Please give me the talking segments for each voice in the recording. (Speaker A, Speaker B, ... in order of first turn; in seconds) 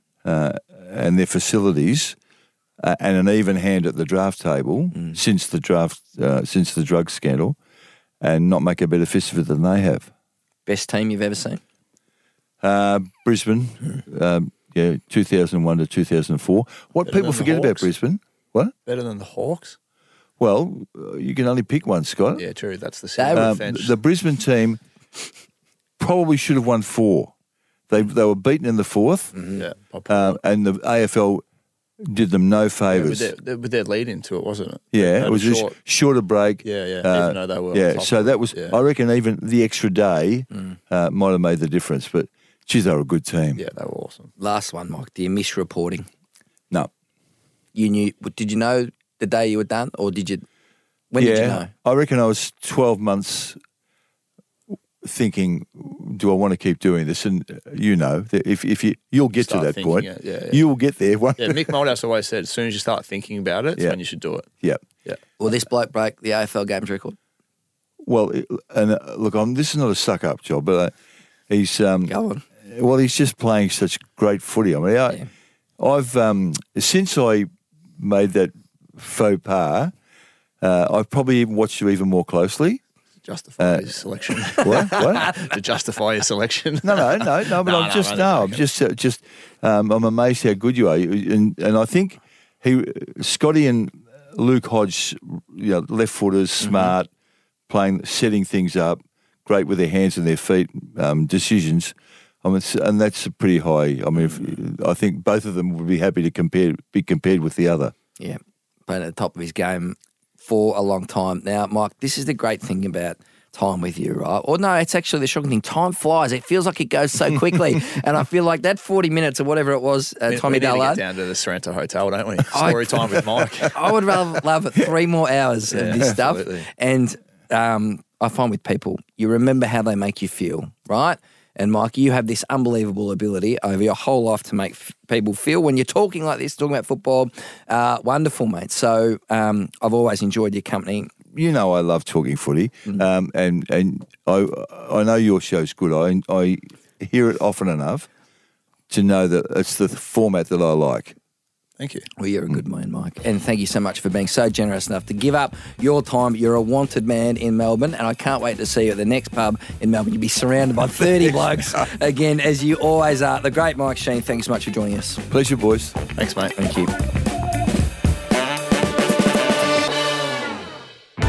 Speaker A: 0.2-2.1, 2.8-7.6, 8.2-10.1, 12.6-18.7, 20.4-22.4, 23.3-24.8, 26.0-27.3, 27.9-29.3, 30.1-31.4, 32.0-33.3, 34.9-43.6, 51.2-53.6, 55.0-61.8, 68.0-70.9, 71.5-75.2, 75.8-79.9, 80.6-82.8, 83.6-83.9, 84.6-85.4, 86.8-97.1, 97.7-107.9, 141.3-148.1, 148.9-151.1, 165.3-166.0
Speaker B: 10.7-11.6, 23.2-23.5, 29.3-29.6, 44.4-46.1, 47.7-50.5, 51.1-51.7, 65.4-67.2, 72.1-72.4, 108.2-121.0, 122.5-141.1, 152.2-165.2, 166.6-166.9
Speaker C: 17.1-17.9, 18.9-19.8, 22.4-23.9, 29.6-30.4, 32.9-35.8, 36.6-38.8, 43.5-44.3, 59.4-60.6, 61.4-64.5, 83.2-88.6, 120.3-124.0, 125.7-126.7, 151.8-152.1, 166.2-166.6